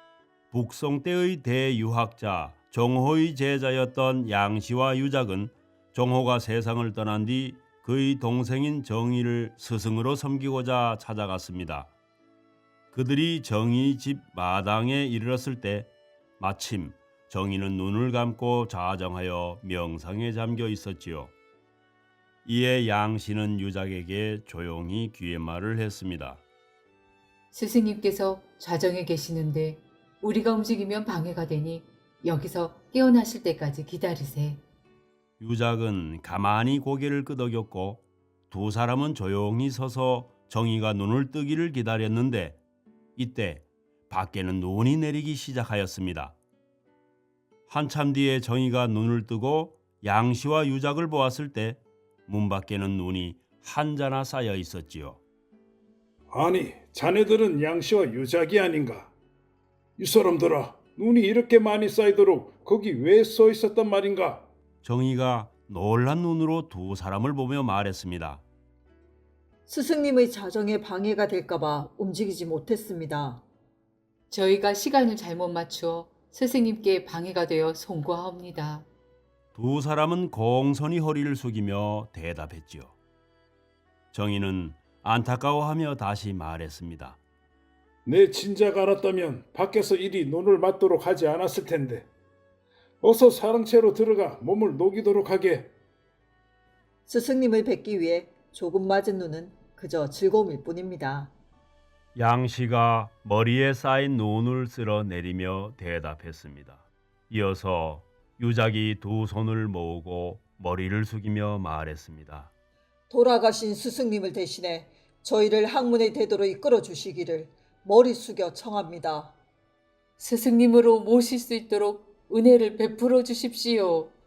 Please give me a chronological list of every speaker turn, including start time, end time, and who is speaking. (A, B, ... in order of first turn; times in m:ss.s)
0:00.5-0:11.9 A
0:12.9-0:21.3 A
0:22.4-0:26.4 A
0:27.5-0:34.6 B
0:35.4-0:42.6 A
0:43.2-0:46.4 A
0:47.7-0:55.2 A
0:56.3-0:59.1 C
1:00.0-1:04.5 C
1:04.8-1:08.4 A
1:09.7-1:13.4 D
1:14.3-1:18.9 B
1:19.5-1:23.0 A
1:24.1-1:27.2 A
1:28.0-1:32.1 C
1:33.0-1:35.7 C
1:37.1-1:41.3 D
1:42.2-1:52.5 A
1:53.1-1:59.4 D
2:00.2-2:04.1 B